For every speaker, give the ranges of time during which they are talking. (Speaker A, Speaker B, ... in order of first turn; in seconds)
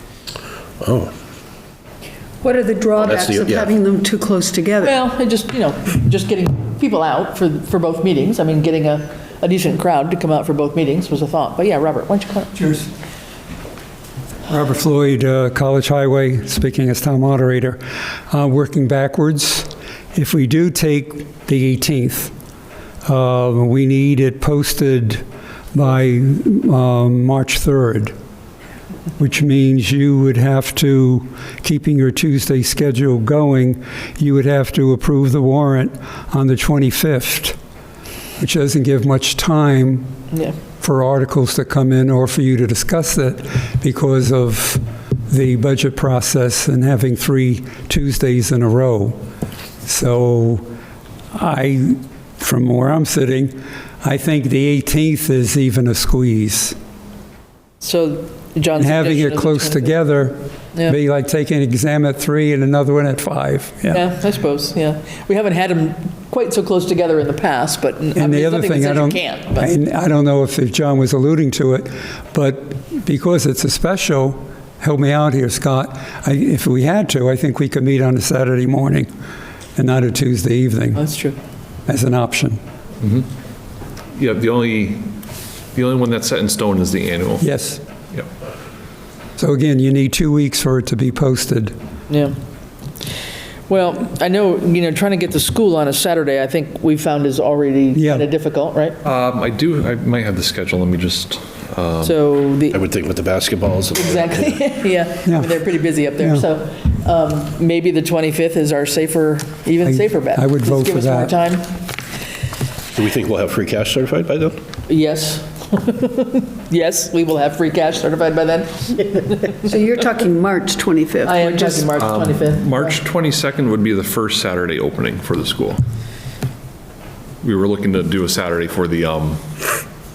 Speaker A: 0.8-1.1, 3.0-3.7, 102.7-104.5, 112.9-114.5
Speaker B: 2.4-5.0, 119.6-121.9
Speaker C: 4.8-12.6, 57.8-60.0, 63.9-69.7, 81.0-81.4, 92.1-92.3, 93.7-99.0, 102.0-102.8, 103.9-111.7, 114.9-119.7, 121.2-123.0
Speaker D: 12.6-12.9, 14.5-22.3, 23.0-28.1, 29.2-37.5, 38.4-40.1, 40.8-49.2, 49.8-50.6, 51.3-56.8, 58.8-64.1, 68.1-79.1, 79.8-81.0, 81.9-82.6, 87.4-87.8, 89.4-91.7, 97.9-98.2, 105.2-105.5, 106.2-106.4, 109.8-111.3
Speaker E: 84.2-85.2, 85.7-87.4, 99.0-102.2, 121.9-125.8, 127.4-129.7